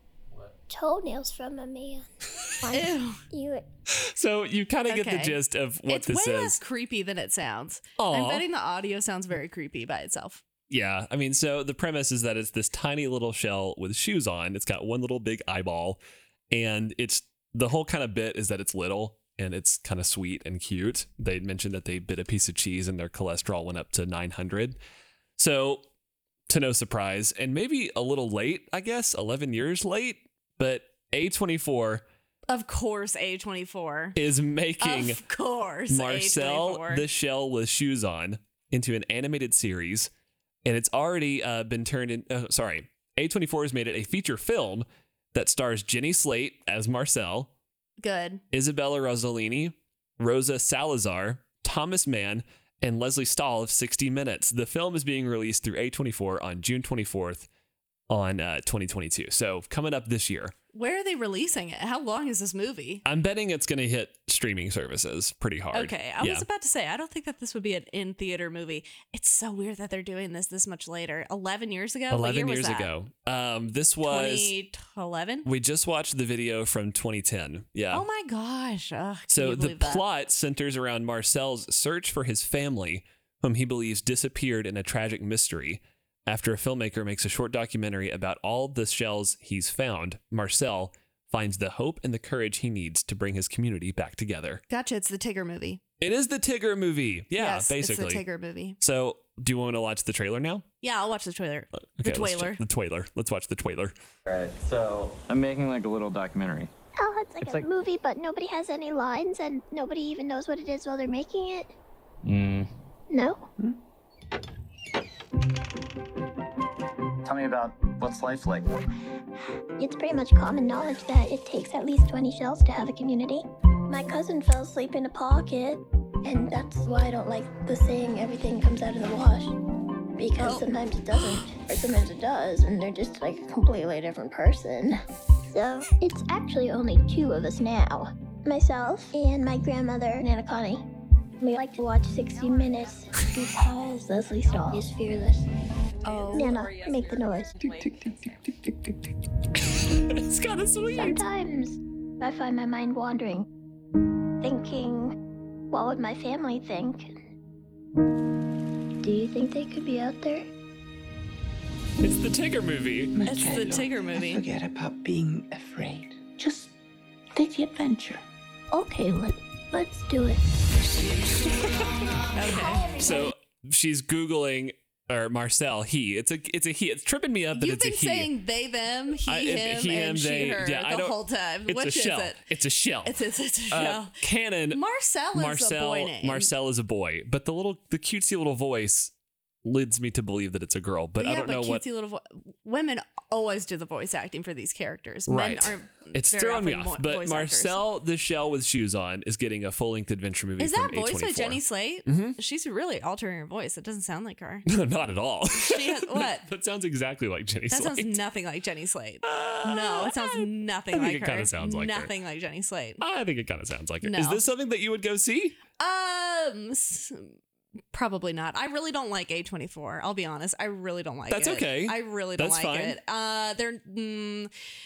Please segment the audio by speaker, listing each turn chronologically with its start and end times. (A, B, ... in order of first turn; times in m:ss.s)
0:00.7-0:03.6 A
0:02.7-0:03.2 B
0:03.9-0:06.6 C
0:04.9-0:10.4 B
0:08.0-0:08.4 C
0:10.7-0:24.8 C
0:25.4-0:25.8 C
0:26.5-0:32.0 C
0:32.5-0:34.2 B
0:34.1-0:35.2 C
0:34.8-0:37.1 B
0:35.9-0:40.1 C
0:40.6-0:47.5 C
0:48.0-0:48.4 B
0:48.5-0:57.5 C
0:58.1-1:00.5 C
1:00.7-1:03.0 B
1:03.0-1:06.4 C
1:05.7-1:12.9 B
1:12.1-1:14.5 C
1:14.0-1:15.5 B
1:15.4-1:18.1 C
1:17.9-1:20.0 B
1:19.3-1:34.6 C
1:34.7-1:35.8 B
1:36.0-1:38.2 C
1:37.4-1:38.8 B
1:38.8-1:40.6 C
1:40.8-1:42.6 B
1:42.0-1:43.9 C
1:44.3-1:44.8 D
1:44.3-1:46.7 E
1:47.0-1:51.7 A
1:52.2-1:52.6 E
1:52.3-1:52.6 D
1:53.1-1:53.5 A
1:57.2-1:58.7 E
1:59.8-2:09.6 A
2:10.2-2:15.0 A
2:10.4-2:10.8 B
2:15.5-2:20.8 A
2:21.4-2:25.5 A
2:26.0-2:26.7 B
2:26.3-2:27.8 A
2:28.1-2:28.9 D
2:29.8-2:31.2 C
2:30.9-2:33.5 A
2:34.4-2:35.2 A
2:35.7-2:37.2 A
2:39.0-2:40.5 A
2:42.0-2:43.2 C
2:43.2-2:46.7 D
2:43.2-2:44.4 B
2:47.4-2:48.2 D
2:48.7-2:50.6 A
2:52.3-2:53.0 B
2:52.4-2:53.3 A
2:52.9-2:58.3 C
2:57.5-3:02.4 B
2:59.3-3:04.8 C
3:03.0-3:04.2 B
3:04.7-3:06.5 B
3:05.3-3:09.1 C
3:09.6-3:11.8 C
3:11.2-3:17.8 B
3:15.3-3:22.4 C
3:20.6-3:24.7 B
3:24.6-3:28.2 C
3:25.5-3:26.5 B
3:27.7-3:33.0 B
3:29.2-3:32.1 C
3:33.0-3:35.6 C
3:34.0-3:34.4 B
3:35.8-3:37.3 B
3:37.9-3:44.5 B
3:41.3-3:43.0 C